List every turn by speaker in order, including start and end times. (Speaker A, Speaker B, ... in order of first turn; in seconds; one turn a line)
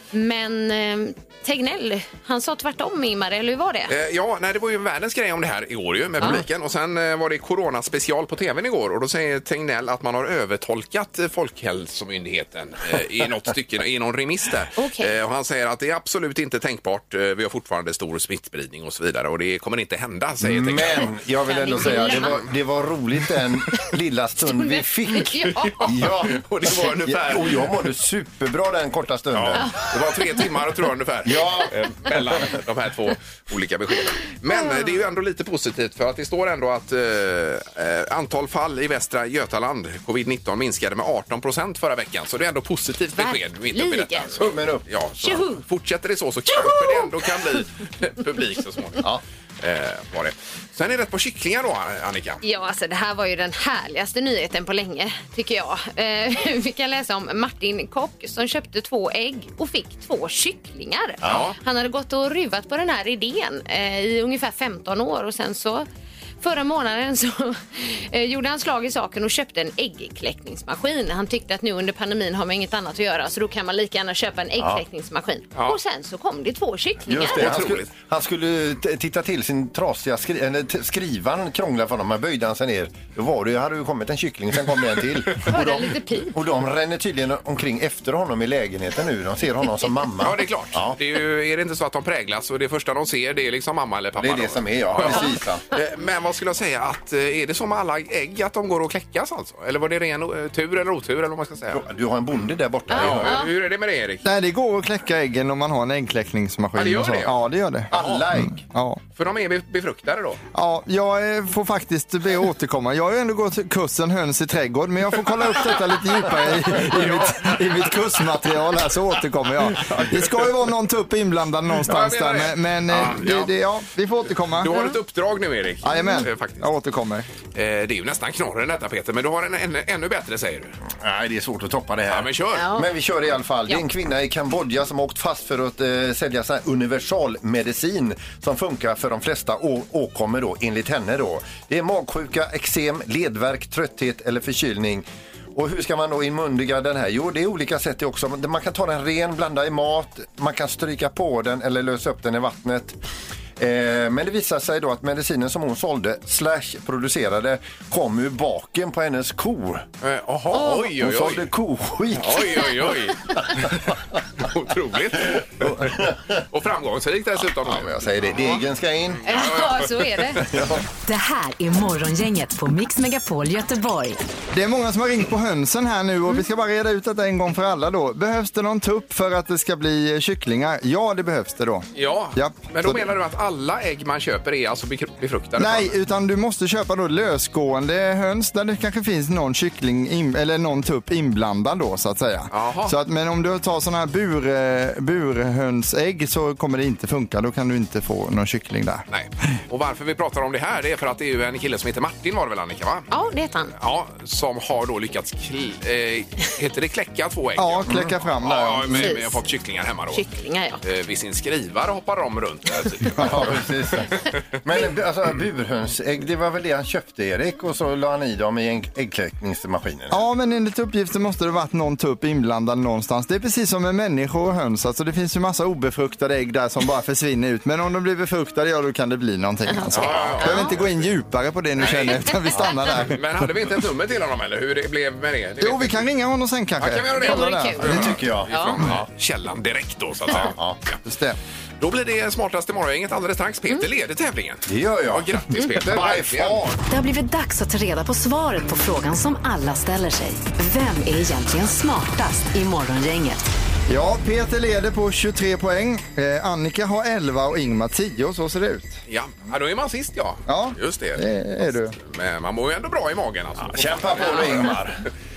Speaker A: 0.1-3.9
Speaker B: 3.9-21.1
Speaker A: 14.8-15.1
Speaker C: 20.4-29.7
Speaker A: 21.4-22.4
Speaker B: 21.8-22.4
Speaker A: 24.4-26.0
Speaker B: 25.6-27.7
Speaker B: 29.3-49.0
Speaker C: 31.2-32.1
Speaker A: 34.5-34.9
Speaker A: 43.2-44.4
Speaker C: 44.4-45.3
Speaker A: 45.2-45.6
Speaker A: 46.5-47.1
Speaker B: 49.6-52.4
Speaker A: 52.4-65.8
Speaker C: 61.2-61.5
Speaker B: 61.2-61.5
Speaker A: 66.4-77.5
Speaker C: 74.6-74.8
Speaker C: 77.1-91.0
Speaker B: 77.2-77.9
Speaker A: 85.4-86.4
Speaker B: 90.2-101.8
Speaker C: 94.2-95.6
Speaker C: 101.7-103.4
Speaker A: 102.9-103.5
Speaker B: 102.9-104.2
Speaker D: 104.2-109.0
Speaker B: 106.8-107.3
Speaker B: 107.9-108.2
Speaker C: 107.9-108.6
Speaker B: 109.2-110.4
Speaker D: 110.5-124.9
Speaker B: 116.7-117.8
Speaker B: 121.8-123.5
Speaker B: 124.6-126.7
Speaker D: 125.8-127.3
Speaker B: 127.5-130.8
Speaker C: 130.9-153.0
Speaker B: 132.1-132.7
Speaker A: 132.5-132.9
Speaker C: 153.6-159.8
Speaker B: 160.0-161.5
Speaker A: 160.5-160.9
Speaker C: 160.5-164.2
Speaker B: 162.1-165.9
Speaker C: 165.3-166.4
Speaker B: 166.5-168.6
Speaker C: 167.5-169.2
Speaker B: 169.2-170.5
Speaker A: 169.2-170.4
Speaker C: 170.5-170.8
Speaker E: 171.0-174.2
Speaker D: 174.5-183.1
Speaker B: 181.9-185.9
Speaker D: 185.6-199.0
Speaker B: 192.5-192.9
Speaker B: 199.1-203.1
Speaker A: 203.1-203.7
Speaker B: 203.8-210.2
Speaker D: 207.6-209.2
Speaker C: 207.9-208.1
Speaker A: 208.9-209.4
Speaker A: 210.1-210.8
Speaker B: 210.8-213.7
Speaker C: 213.2-220.2
Speaker D: 220.1-233.5
Speaker A: 229.7-230.8
Speaker B: 229.9-231.1
Speaker B: 231.8-232.3
Speaker B: 233.1-236.1
Speaker D: 235.6-238.1
Speaker B: 236.8-241.0
Speaker A: 237.2-238.8
Speaker C: 237.8-239.1
Speaker C: 240.3-240.8
Speaker D: 241.0-241.4
Speaker B: 241.8-246.8
Speaker C: 244.7-246.7
Speaker E: 246.9-253.4
Speaker D: 253.9-259.0
Speaker B: 259.1-261.2
Speaker D: 260.5-261.9
Speaker B: 261.9-264.8
Speaker C: 263.6-265.0